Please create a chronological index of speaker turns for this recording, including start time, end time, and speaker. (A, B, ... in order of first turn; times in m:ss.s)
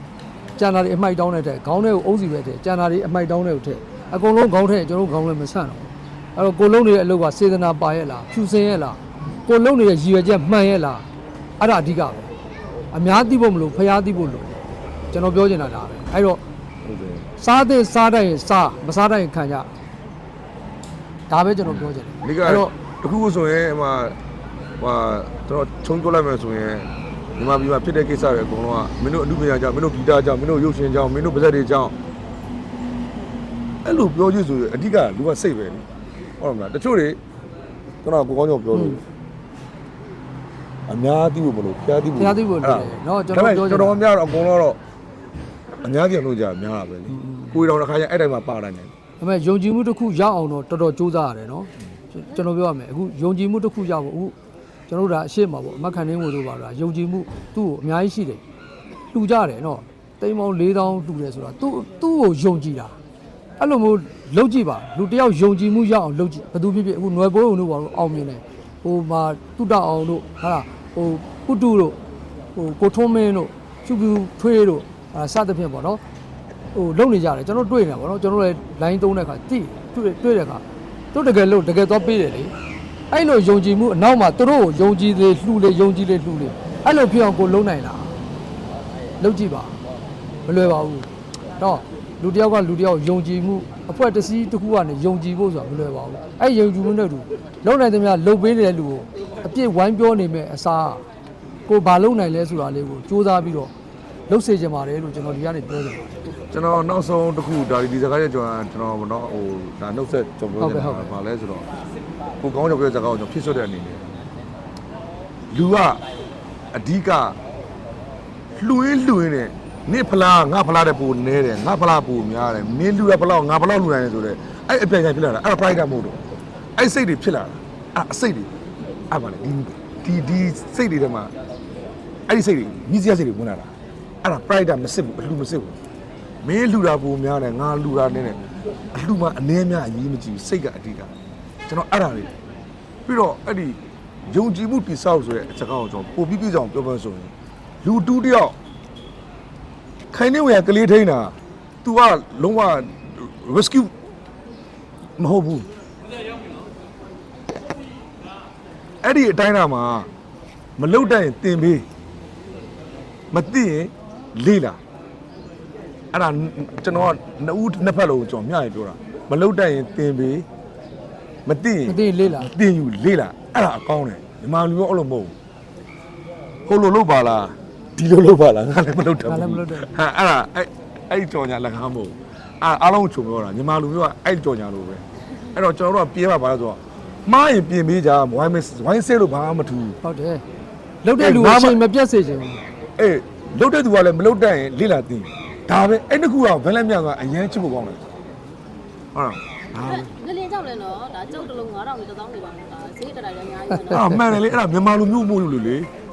0:00.6-0:11.1 A
0:11.6-0:12.3 A
0:12.9-0:14.6 A
0:15.1-0:16.4 A
0:16.8-0:17.3 B
0:17.4-0:19.7 A
0:21.3-0:22.7 A
0:21.6-0:24.2 B
0:24.8-0:31.9 B
0:33.8-0:35.8 B
0:36.4-0:37.2 B
0:38.0-0:39.0 B
0:38.7-0:39.0 A
0:40.9-0:44.8 B
0:42.2-0:44.0 A
0:45.8-0:48.9 B
0:47.1-0:47.6 A
0:49.2-0:54.4 A
0:54.9-0:58.4 A
0:59.1-1:03.0 A
1:03.6-1:12.0 A
1:12.5-1:16.0 A
1:16.7-1:22.5 A
1:23.1-1:28.2 A
1:29.2-1:29.8 A
1:30.4-1:41.0 A
1:41.7-1:43.7 A
1:44.3-1:46.1 A
1:46.5-1:51.7 B
1:50.6-1:51.1 A
1:52.4-1:54.0 B
1:55.5-1:56.0 B
1:56.7-1:57.4 B
1:58.6-2:06.2 B
2:06.8-2:08.5 B
2:09.1-2:11.3 B
2:12.3-2:13.7 B
2:14.2-2:15.8 B
2:16.4-2:18.4 B
2:18.9-2:21.1 B
2:21.7-2:22.3 B
2:23.0-2:27.3 B
2:27.8-2:28.5 B
2:30.1-2:33.9 B
2:35.2-2:35.7 B
2:39.0-2:40.1 B
2:40.8-2:41.8 B
2:43.3-2:44.8 B
2:46.1-2:50.4 B
2:51.4-2:55.3 B
2:51.8-2:52.5 A
2:56.7-3:10.0 B
2:59.2-2:59.9 A
3:10.0-3:10.4 A
3:11.0-3:12.6 A
3:11.2-3:11.8 B
3:13.0-3:18.0 B
3:19.1-3:20.1 B
3:20.0-3:24.0 C
3:23.8-3:25.9 B